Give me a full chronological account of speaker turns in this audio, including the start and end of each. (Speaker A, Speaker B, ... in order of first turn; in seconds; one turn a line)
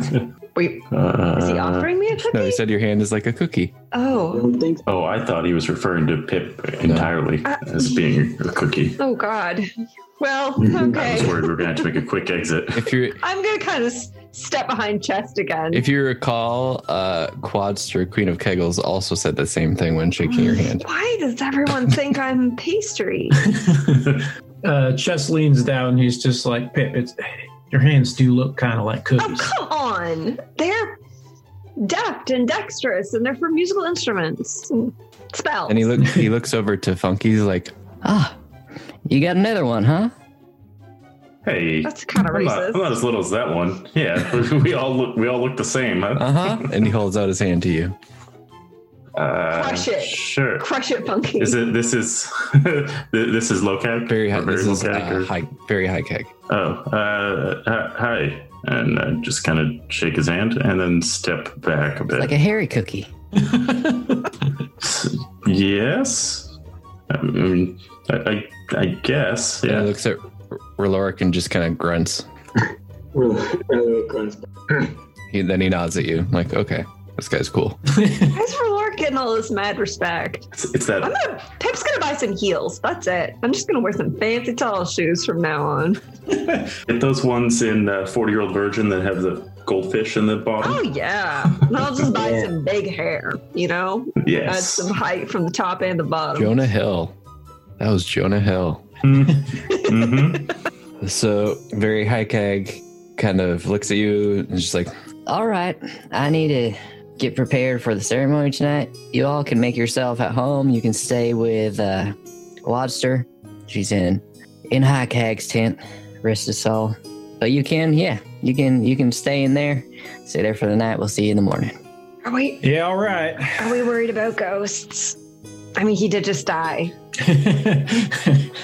Speaker A: 0.6-2.6
Speaker B: 0.9-1.9
Speaker C: 2.3-3.7
Speaker A: 3.9-4.5
Speaker D: 4.3-4.8
Speaker B: 4.8-9.0
Speaker A: 7.5-8.0
Speaker A: 9.0-9.7
Speaker A: 10.2-11.6
Speaker B: 10.9-12.9
Speaker C: 12.8-13.2
Speaker A: 13.2-15.8
Speaker C: 15.7-20.9
Speaker A: 20.8-23.5
Speaker E: 23.5-29.5
Speaker A: 29.2-31.0
Speaker A: 31.8-36.0
Speaker C: 35.7-37.7
Speaker F: 38.0-38.4
Speaker F: 39.1-40.1
Speaker B: 41.4-46.8
Speaker A: 41.9-42.9
Speaker C: 46.2-48.0
Speaker B: 49.1-50.7
Speaker A: 49.5-51.6
Speaker B: 51.4-55.3
Speaker C: 54.1-56.3
Speaker B: 56.5-62.3
Speaker F: 62.1-63.1
Speaker E: 63.4-64.2
Speaker B: 64.8-66.6
Speaker B: 67.1-69.9
Speaker C: 69.7-72.3
Speaker D: 73.1-74.8
Speaker C: 75.3-77.8
Speaker A: 78.3-80.5
Speaker B: 80.5-81.1
Speaker A: 81.0-86.0
Speaker B: 86.8-90.9
Speaker A: 90.6-96.6
Speaker D: 92.2-92.5
Speaker B: 94.2-95.0
Speaker C: 96.4-97.1
Speaker C: 97.8-98.8
Speaker B: 99.0-100.5
Speaker C: 101.0-104.9
Speaker F: 105.3-121.7
Speaker A: 122.2-122.6
Speaker E: 122.6-123.8
Speaker A: 123.6-125.2
Speaker A: 125.8-126.9
Speaker E: 127.2-128.4